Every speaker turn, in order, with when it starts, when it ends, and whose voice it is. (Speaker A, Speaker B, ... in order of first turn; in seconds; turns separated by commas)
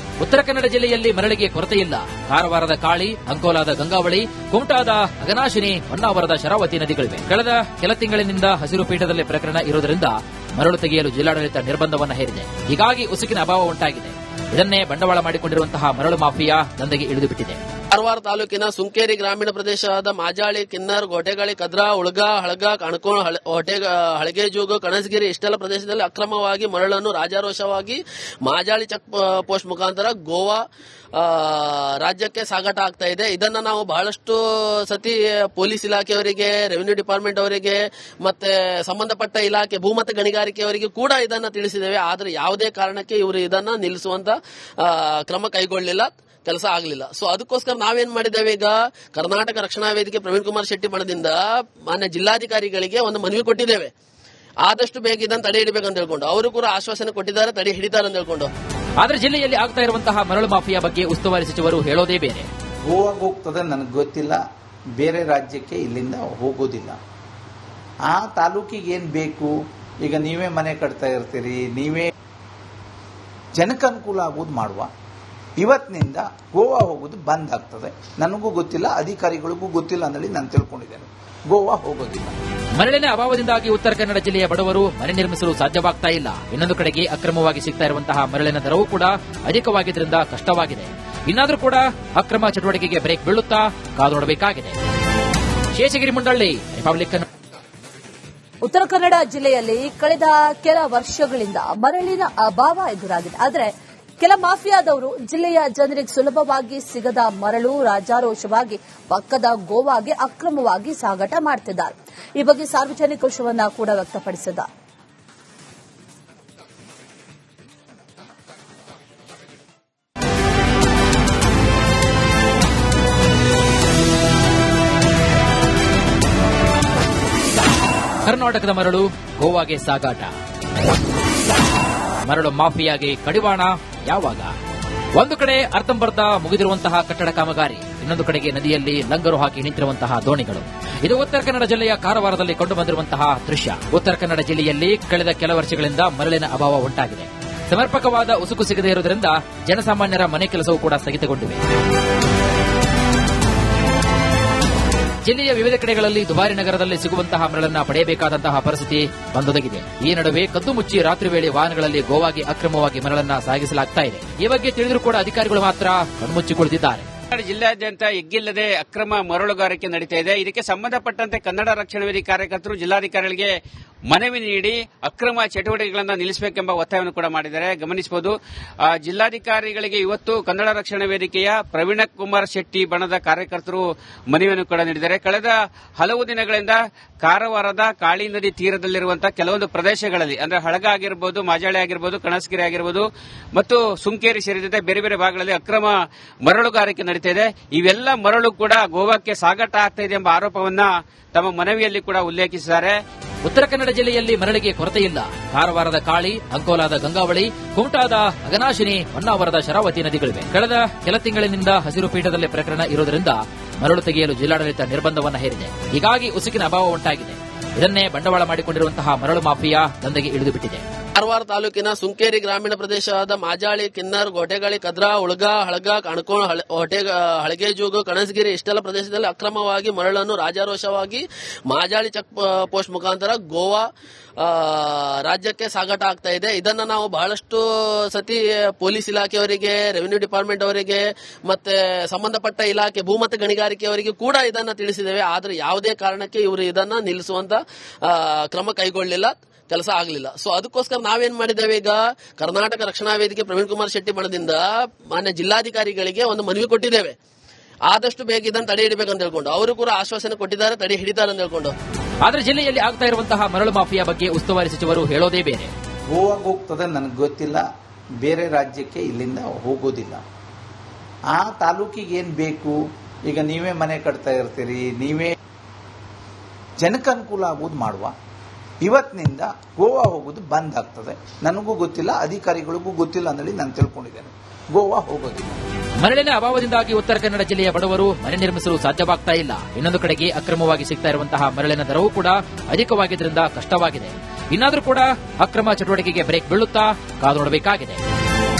Speaker A: 0.2-17.6, Speaker B: 17.9-30.6, Speaker B: 31.2-53.9, Speaker B: 54.6-58.5, Speaker A: 59.0-62.5, Speaker C: 62.9-64.4, Speaker C: 65.0-67.0, Speaker C: 68.1-72.1, Speaker C: 73.6-74.9, Speaker C: 75.6-82.3, Speaker A: 82.8-94.8, Speaker A: 95.8-97.3, Speaker D: 98.6-114.7, Speaker A: 128.2-130.3, Speaker A: 132.3-134.5, Speaker A: 135.2-151.6, Speaker A: 155.2-167.1, Speaker E: 167.3-173.5, Speaker E: 174.1-178.3, Speaker E: 178.9-203.0, Speaker A: 203.4-220.8, Speaker B: 221.2-233.9, Speaker B: 234.4-257.2, Speaker B: 257.9-261.7, Speaker A: 262.2-265.7, Speaker C: 266.1-267.6, Speaker C: 268.2-270.2, Speaker C: 271.3-272.8, Speaker C: 273.3-275.3, Speaker C: 276.8-278.1, Speaker C: 278.9-285.6, Speaker A: 286.0-298.0